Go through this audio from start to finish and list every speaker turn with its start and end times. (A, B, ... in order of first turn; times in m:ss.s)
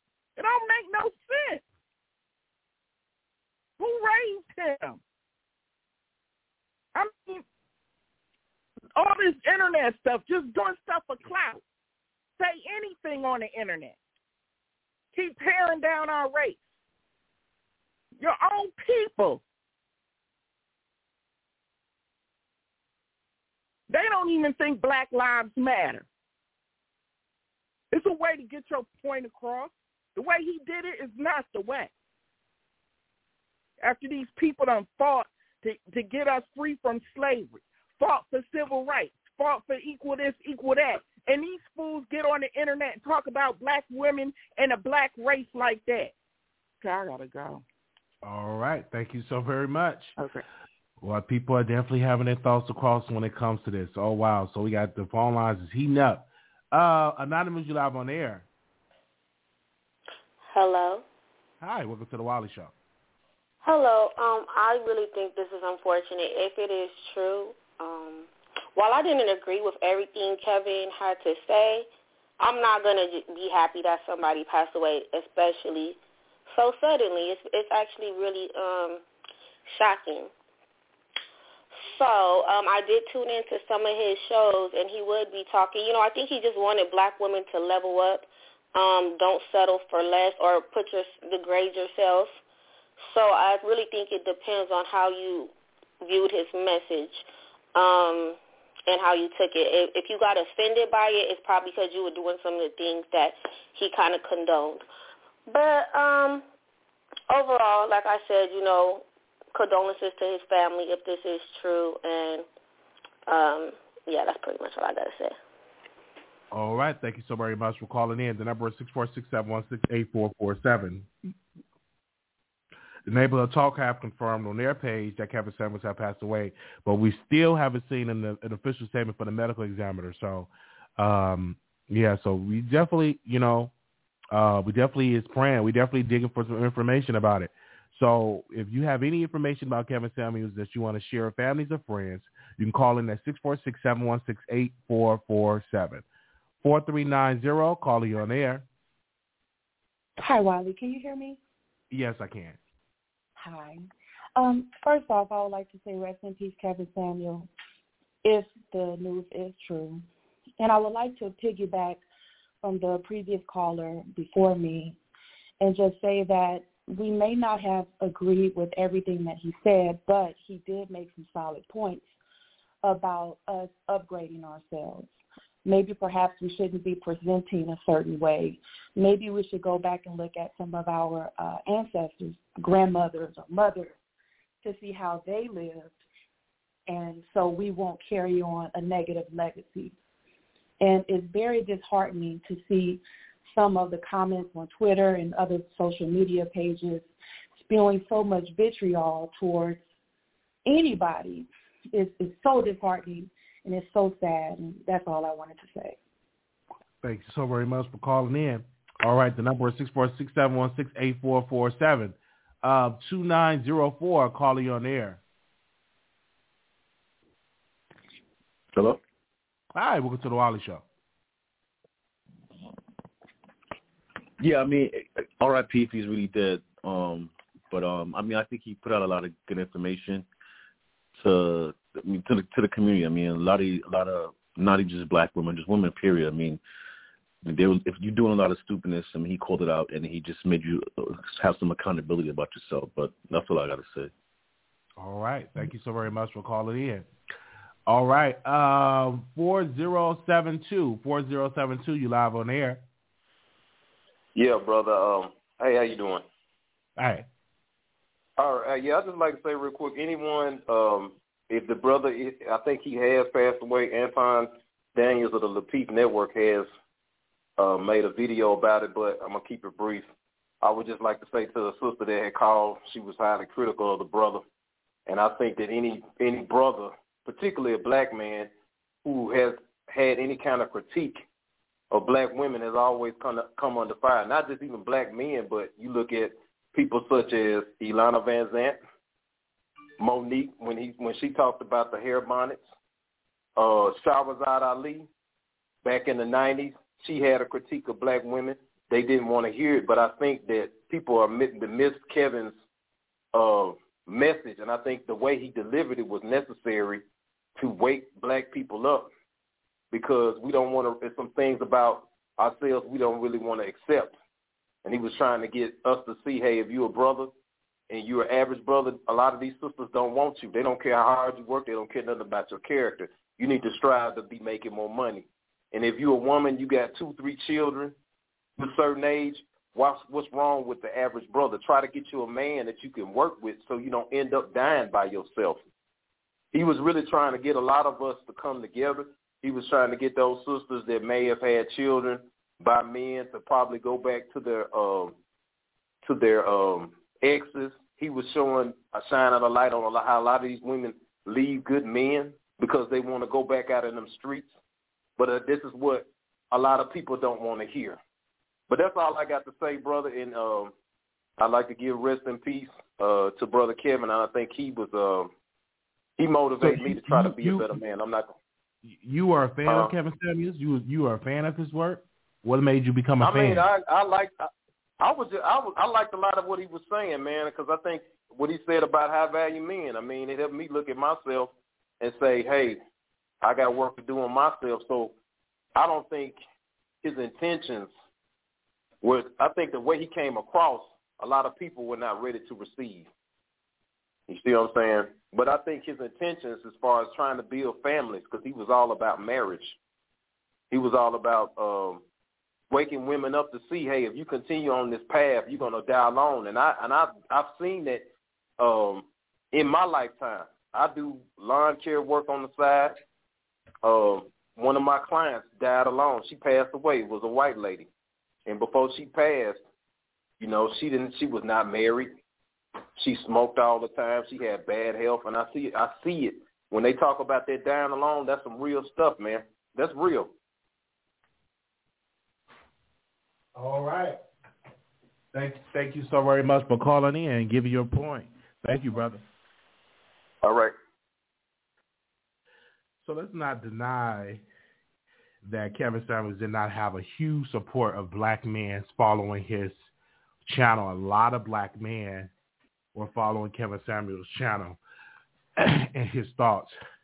0:00.4-0:01.6 A
0:03.8-0:05.0 A
0:07.0-0:07.4 A
0:09.0-0:11.6 A
0:12.4-0:14.0 A
0:15.1-0:16.6 A
0:18.2-0:19.4 A
0:23.9-0:26.1 A
0:27.9-0:31.9 A
0:33.8-0:46.1 A
0:46.8-0:47.6 A
0:48.2-0:50.2 B
0:51.0-0:58.5 B
1:00.5-1:01.0 C
1:01.6-1:02.7 B
1:03.6-1:11.9 C
1:12.4-1:19.0 C
1:19.7-1:20.3 C
1:21.8-1:32.4 C
1:33.0-1:44.8 C
1:45.5-1:46.4 C
1:47.3-1:52.5 C
1:53.3-1:55.4 C
1:56.5-2:01.1 B
2:03.1-2:13.7 B
2:14.3-2:26.0 B
2:26.6-2:28.6 B
2:30.2-2:31.4 D
2:31.9-2:32.6 B
2:33.4-2:37.5 D
2:38.2-2:40.1 D
2:40.6-2:42.0 D
2:42.6-2:45.0 D
2:45.6-2:52.0 D
2:52.8-3:03.9 D
3:04.6-3:06.0 D
3:06.9-3:09.9 D
3:10.8-3:19.8 D
3:20.6-3:26.0 D
3:27.0-3:35.2 B
3:39.8-3:40.8 B
3:44.4-3:50.2 E
3:51.2-3:56.6 E
3:57.4-4:04.1 E
4:05.0-4:07.1 B
4:07.9-4:12.8 B
4:14.4-4:16.2 F
4:17.0-4:17.2 B
4:18.4-4:26.7 F
4:27.6-4:30.1 F
4:30.6-4:34.4 F
4:35.1-4:38.5 F
4:39.0-4:41.2 F
4:41.9-4:48.8 F
4:50.0-4:52.7 F
4:53.6-4:55.1 F
4:55.8-5:02.6 F
5:03.3-5:07.0 F
5:07.6-5:09.1 F
5:09.9-5:14.1 F
5:14.8-5:17.3 F
5:17.9-5:27.9 F
5:28.6-5:35.6 F
5:36.5-5:45.2 F
5:46.0-5:54.5 F
5:55.2-5:58.0 F
5:58.7-6:00.7 F
6:01.4-6:05.3 F
6:06.2-6:08.3 F
6:06.6-6:07.7 B
6:08.8-6:13.7 B
6:09.7-6:09.9 F
6:13.2-6:14.5 F
6:15.0-6:22.8 F
6:23.4-6:25.1 F
6:25.8-6:26.4 F
6:27.0-6:27.9 F
6:29.0-6:33.1 F
6:34.3-6:39.8 F
6:40.7-6:42.0 F
6:42.7-6:48.1 F
6:48.6-6:53.0 F
6:53.8-6:57.9 F
6:58.5-6:59.6 F
7:00.4-7:02.2 F
7:03.0-7:10.3 F
7:13.6-7:14.2 B
7:15.3-7:19.2 B
7:20.4-7:20.7 F
7:23.0-7:24.4 B
7:25.4-7:29.9 B
7:30.4-7:32.3 B
7:33.0-7:34.8 B
7:35.6-7:36.8 B